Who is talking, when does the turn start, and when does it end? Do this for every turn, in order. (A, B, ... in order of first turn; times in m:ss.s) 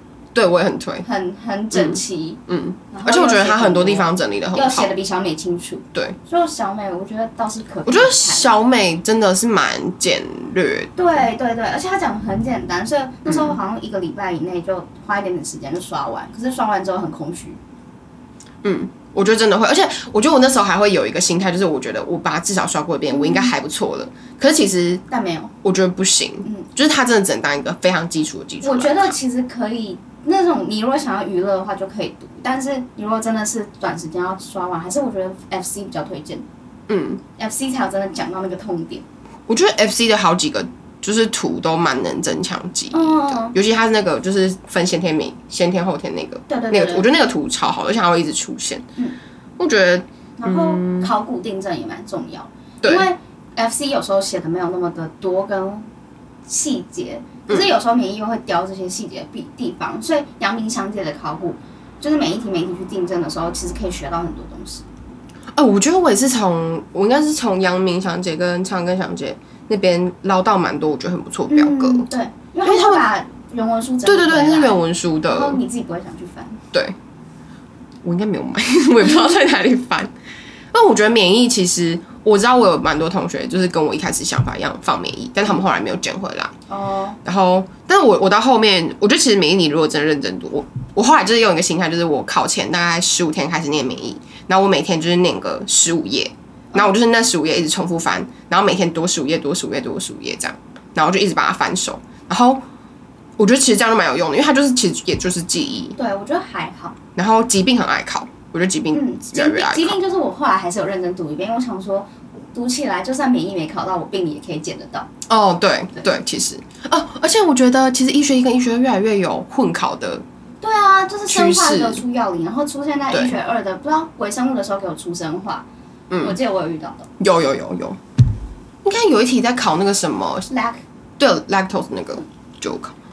0:00.3-0:01.0 A
0:01.0-0:08.5 B
0:01.7-0:04.9 A
0:07.8-0:11.2 A
0:11.0-0:17.6 B
0:13.2-0:13.6 A
0:18.6-0:25.0 A
0:23.1-0:23.5 B
0:25.1-0:25.5 B
0:25.6-0:29.2 A
0:28.6-0:36.4 B
0:36.9-0:37.2 A
0:37.4-0:39.0 B
0:39.5-0:48.8 A
0:42.9-0:43.5 B
0:46.5-0:47.1 B
0:49.6-0:51.1 A
0:50.4-0:55.8 B
0:52.8-0:53.1 A
0:56.5-1:04.8 B
1:05.5-1:12.1 A
1:11.5-1:14.8 B
1:12.6-1:13.1 A
1:14.0-1:15.6 A
1:15.3-1:16.6 B
1:18.0-1:20.1 A
1:20.7-1:26.5 A
1:26.7-1:27.2 B
1:27.2-1:42.6 A
1:43.4-1:46.0 A
1:46.0-1:47.0 B
1:47.2-1:50.0 A
1:48.9-1:55.1 B
1:55.3-2:00.2 A
2:00.6-2:05.6 B
2:01.3-2:02.0 A
2:06.1-2:06.4 A
2:06.2-2:07.1 B
2:07.2-2:08.0 A
2:08.8-2:10.5 A
2:10.5-2:10.8 B
2:11.2-2:12.9 A